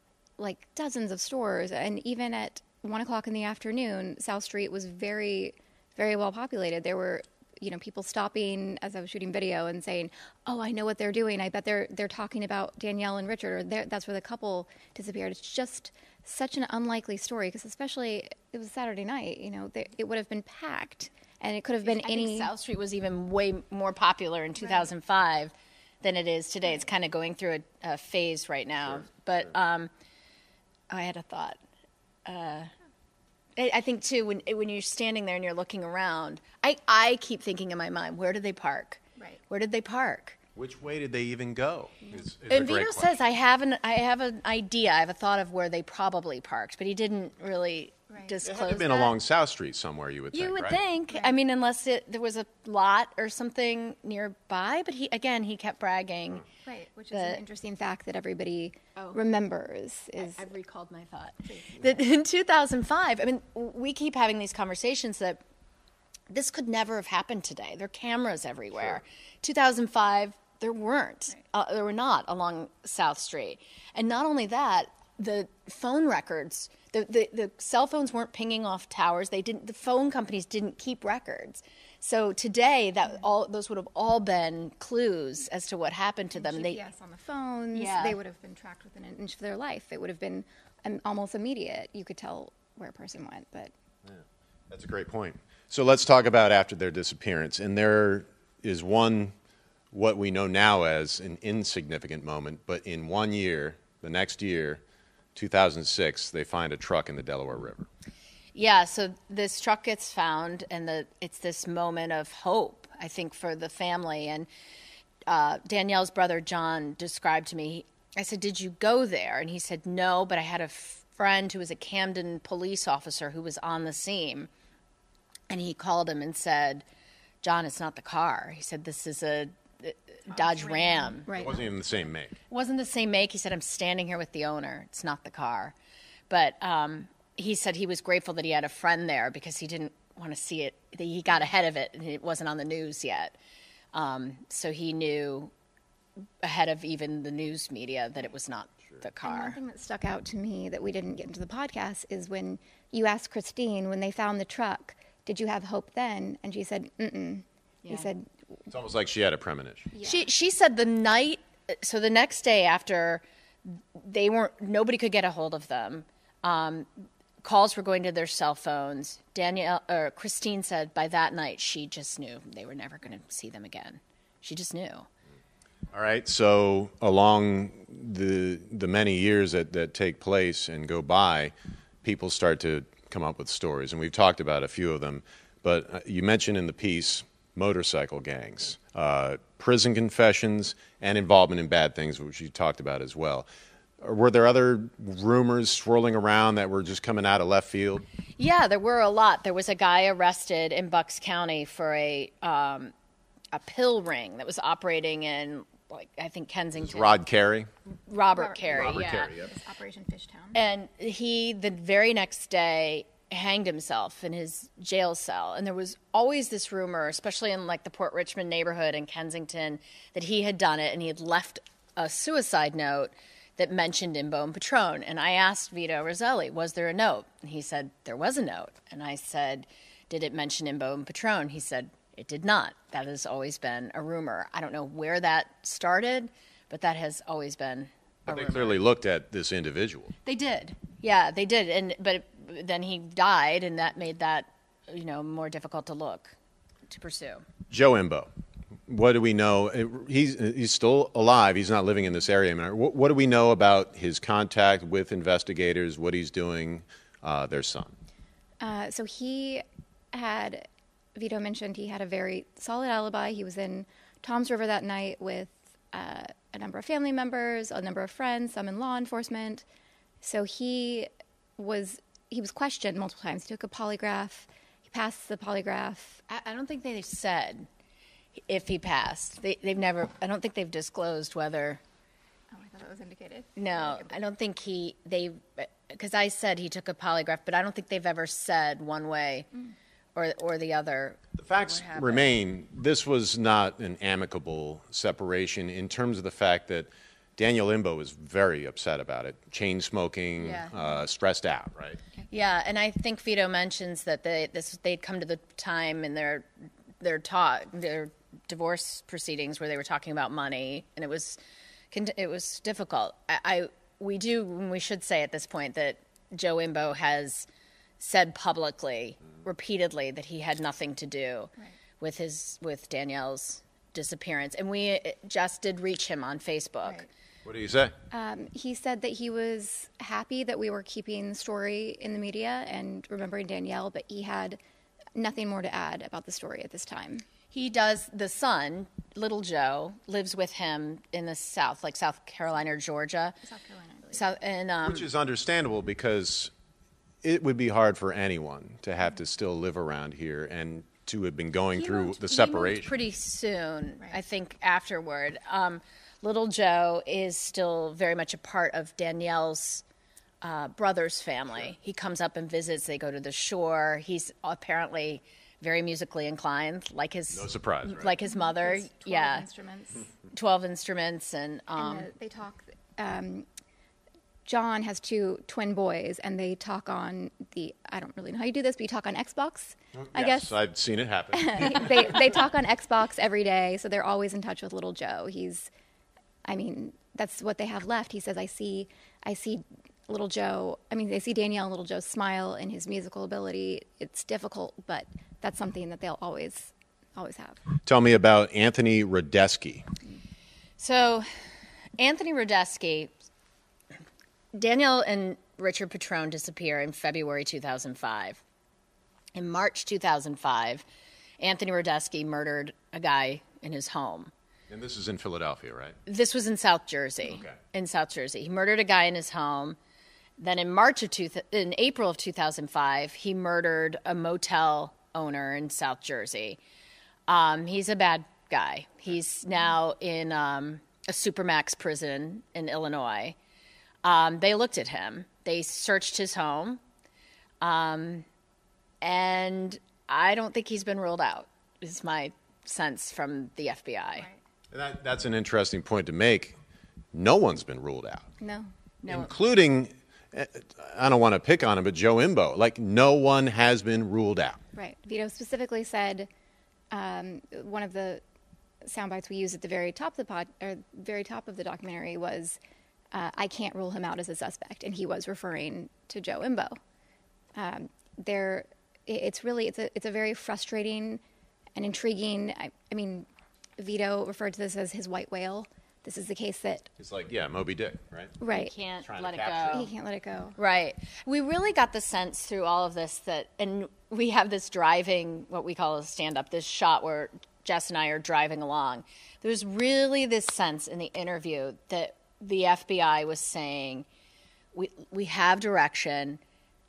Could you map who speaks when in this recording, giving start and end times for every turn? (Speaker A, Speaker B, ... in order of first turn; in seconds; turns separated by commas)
Speaker A: 0.4-22.5, Speaker B: 21.8-29.9, Speaker B: 30.9-31.6, Speaker B: 32.2-32.7, Speaker B: 33.5-40.4, Speaker C: 40.5-43.2, Speaker B: 42.5-49.1, Speaker C: 48.4-50.8, Speaker B: 50.3-56.4, Speaker A: 56.6-60.4, Speaker B: 57.1-57.4, Speaker B: 60.2-65.4, Speaker B: 66.3-86.8, Speaker C: 68.8-69.0, Speaker A: 86.3-93.7, Speaker B: 87.7-88.2, Speaker C: 94.0-99.3, Speaker C: 99.9-104.8, Speaker C: 105.3-107.9, Speaker B: 108.5-114.5, Speaker B: 115.3-124.5, Speaker B: 125.5-126.8, Speaker B: 127.4-131.3, Speaker A: 130.6-131.6, Speaker C: 131.3-132.3, Speaker B: 132.5-135.7, Speaker B: 136.3-143.3, Speaker B: 143.9-145.5, Speaker B: 146.4-149.6, Speaker A: 149.2-158.3, Speaker C: 158.7-159.9, Speaker A: 159.9-160.2, Speaker B: 160.0-175.1, Speaker C: 175.9-181.5, Speaker C: 182.0-193.5, Speaker C: 194.0-198.1, Speaker B: 198.4-202.9, Speaker B: 203.5-207.2, Speaker C: 206.8-207.7, Speaker B: 208.1-209.3, Speaker A: 208.3-210.6, Speaker C: 208.7-209.5, Speaker B: 210.5-238.8, Speaker C: 238.3-240.1, Speaker B: 240.2-246.3, Speaker B: 246.9-247.4, Speaker C: 247.7-248.3, Speaker C: 248.9-257.9, Speaker A: 258.6-269.6, Speaker A: 270.2-276.2, Speaker B: 276.3-277.7, Speaker B: 278.5-281.8, Speaker A: 282.5-284.2, Speaker B: 283.6-289.5, Speaker B: 290.1-292.3, Speaker C: 291.3-302.0, Speaker B: 300.4-301.0, Speaker B: 302.3-306.5, Speaker B: 307.0-311.4, Speaker B: 311.9-317.5, Speaker B: 318.0-327.1, Speaker C: 327.4-327.9, Speaker A: 328.1-334.6, Speaker A: 335.1-337.2, Speaker B: 337.5-343.4, Speaker A: 343.4-344.2, Speaker B: 344.1-345.1, Speaker C: 344.8-346.5, Speaker C: 347.2-352.9, Speaker B: 351.7-359.8, Speaker B: 360.4-369.4, Speaker C: 367.3-368.2, Speaker A: 368.2-370.0, Speaker B: 370.3-372.1, Speaker A: 371.8-373.5, Speaker A: 374.4-380.5, Speaker C: 379.9-382.3, Speaker A: 381.3-385.7, Speaker A: 386.4-397.6, Speaker C: 397.9-399.9, Speaker B: 400.8-401.3, Speaker B: 402.0-403.1, Speaker B: 404.5-408.4, Speaker B: 409.3-410.8, Speaker B: 411.4-414.3, Speaker C: 414.7-416.0, Speaker B: 416.1-419.8, Speaker C: 417.2-417.6, Speaker B: 420.4-426.6, Speaker B: 427.3-433.4, Speaker B: 434.0-436.8, Speaker B: 437.6-438.2, Speaker B: 439.0-444.3, Speaker C: 444.7-446.6, Speaker C: 447.1-448.2, Speaker A: 448.4-448.7, Speaker B: 449.0-449.3, Speaker C: 449.1-454.6, Speaker A: 454.7-456.3, Speaker A: 456.9-458.2, Speaker A: 458.8-462.6, Speaker A: 463.1-466.8, Speaker A: 467.5-471.2, Speaker A: 471.8-473.3, Speaker A: 473.8-476.9, Speaker C: 477.0-478.4, Speaker A: 478.4-478.7, Speaker B: 478.5-479.9, Speaker C: 479.0-479.9, Speaker A: 479.7-480.6, Speaker B: 480.6-494.1, Speaker B: 494.7-496.4